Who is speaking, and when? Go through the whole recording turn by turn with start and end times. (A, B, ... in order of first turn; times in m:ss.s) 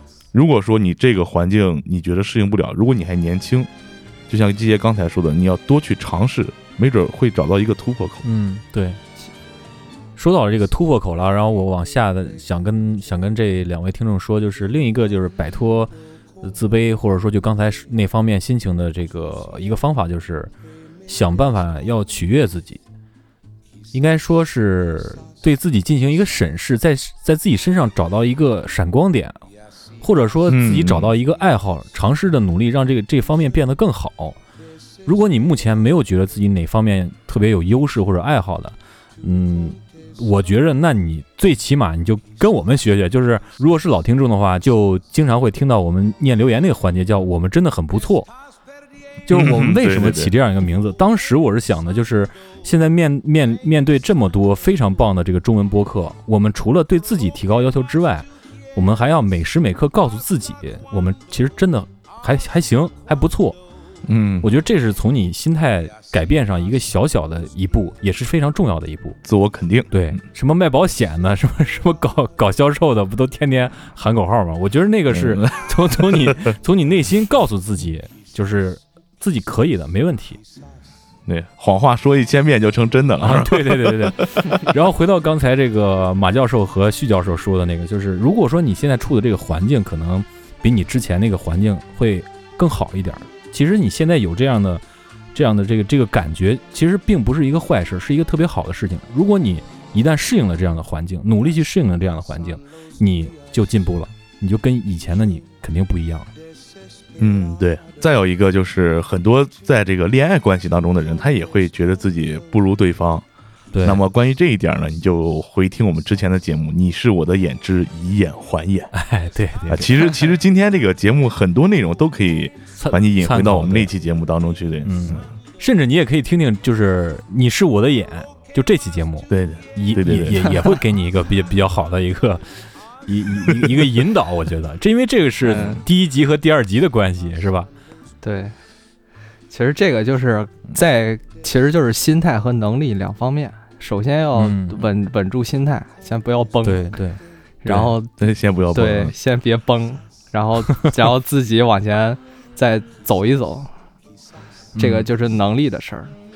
0:00.3-0:03.7 A
0:04.3-0:08.2 A
0:08.2-0:09.0 B
0:10.2-0:20.5 B
0:21.1-0:22.8 B
0:23.9-0:29.4 B
0:30.0-0:34.4 B
0:30.5-0:31.1 A
0:35.0-0:48.3 B
0:49.3-1:03.6 B
0:49.3-0:50.3 A
1:04.0-1:04.5 A
1:04.4-1:09.2 B
1:09.2-1:09.9 A
1:09.9-1:20.4 B
1:15.1-1:16.5 A
1:21.3-1:24.5 A
1:23.2-1:34.8 B
1:35.3-1:46.3 B
1:47.2-1:53.2 A
1:53.7-1:54.0 B
1:53.8-1:58.9 A
1:58.9-2:00.2 B
1:59.7-2:05.2 A
2:02.8-2:03.9 B
2:04.8-2:17.7 B
2:09.3-2:10.5 A
2:15.4-2:15.8 C
2:18.2-2:18.6 C
2:19.5-2:27.0 C
2:24.4-2:24.8 B
2:26.6-2:27.9 B
2:27.6-2:28.1 C
2:28.2-2:29.1 A
2:28.7-2:33.7 C
2:34.8-2:35.1 B
2:34.8-2:36.1 C